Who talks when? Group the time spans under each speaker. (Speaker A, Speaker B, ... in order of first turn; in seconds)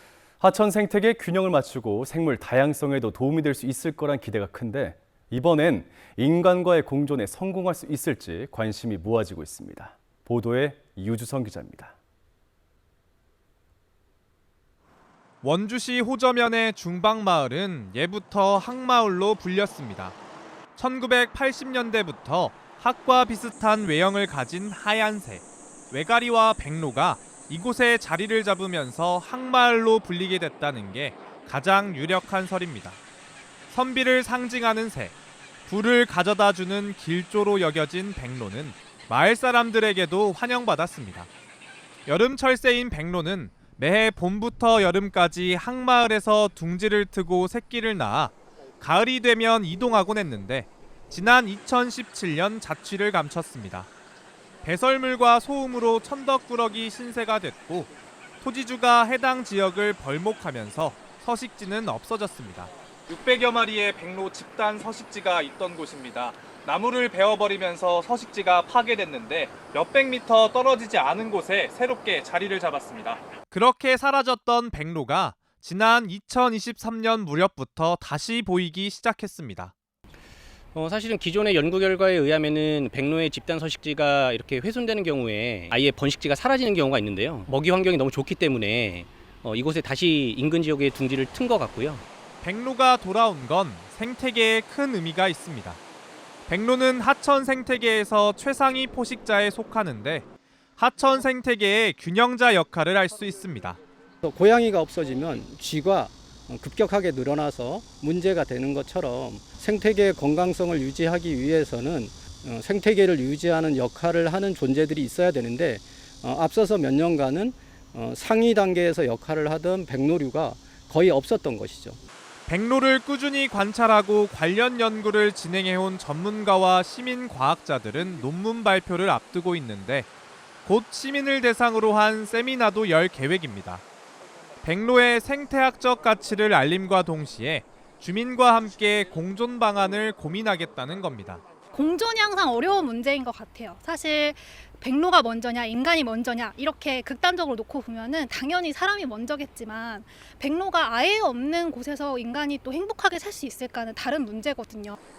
Speaker A: 0.4-11.9
Speaker B: 15.4-20.2, 20.8-33.0, 33.7-41.3, 42.1-53.9, 54.6-57.9, 58.4-79.7, 92.4-95.8, 96.5-100.3, 100.8-103.8, 122.5-130.1, 130.7-133.8, 134.6-141.4
Speaker C: 80.8-92.0
Speaker D: 104.2-122.0
Speaker E: 141.7-155.0